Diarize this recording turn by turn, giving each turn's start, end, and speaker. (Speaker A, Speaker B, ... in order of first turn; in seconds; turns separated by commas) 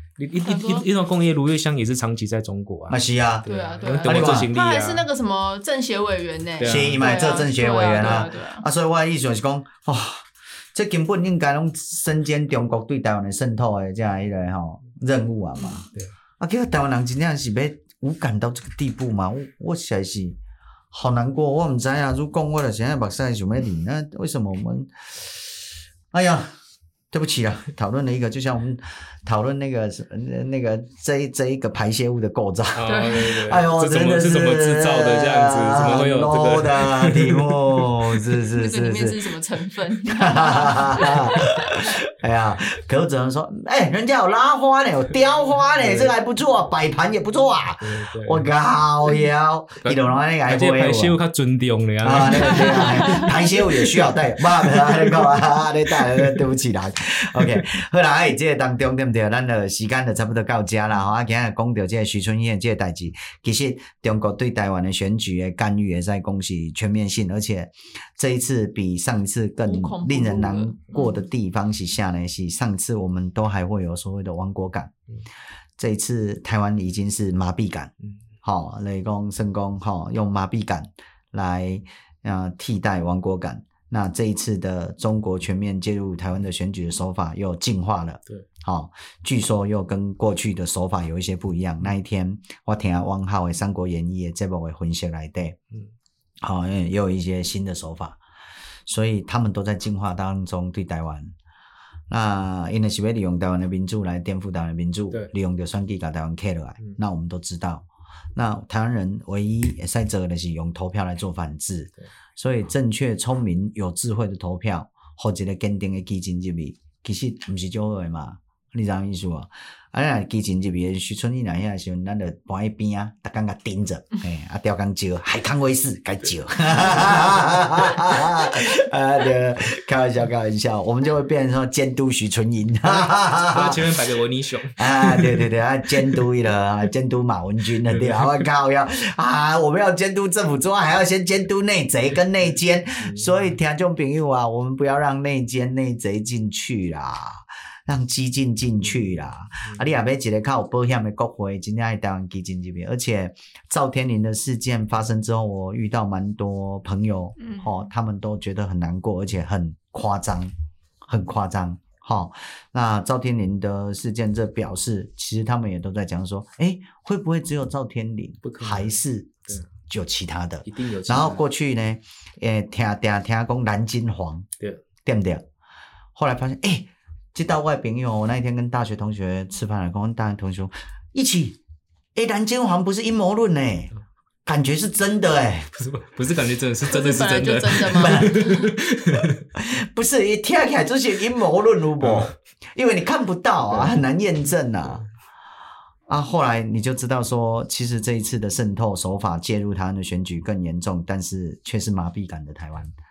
Speaker A: 0.2-5.0, Speaker B: 0.4-0.8, Speaker C: 2.9-3.5, Speaker B: 3.5-8.7, Speaker C: 4.0-4.5, Speaker A: 6.6-7.2, Speaker C: 6.6-20.4, Speaker C: 20.9-25.6, Speaker C: 26.1-26.5, Speaker C: 27.1-39.1, Speaker A: 32.8-38.3, Speaker B: 32.9-33.4, Speaker B: 38.5-41.7, Speaker C: 40.1-51.2, Speaker A: 45.7-46.1, Speaker A: 47.8-48.5, Speaker A: 49.8-56.5, Speaker C: 52.0-74.9, Speaker B: 52.7-53.2, Speaker A: 57.4-57.6, Speaker B: 69.6-71.2, Speaker C: 75.8-77.9, Speaker C: 78.4-95.6, Speaker C: 96.4-98.2, Speaker C: 98.8-101.3, Speaker C: 102.1-134.0, Speaker A: 133.0-136.2, Speaker C: 134.8-160.5, Speaker A: 138.0-138.3, Speaker A: 143.0-143.5, Speaker B: 157.4-157.7, Speaker C: 161.0-174.5, Speaker A: 168.4-168.9, Speaker A: 170.7-171.4, Speaker C: 175.0-175.4, Speaker C: 176.1-181.6, Speaker C: 182.1-183.9, Speaker C: 184.4-185.7, Speaker A: 185.8-189.4, Speaker B: 186.9-188.7, Speaker C: 188.0-188.5, Speaker C: 189.6-195.0, Speaker A: 192.0-192.3, Speaker A: 193.7-193.9, Speaker C: 196.1-202.9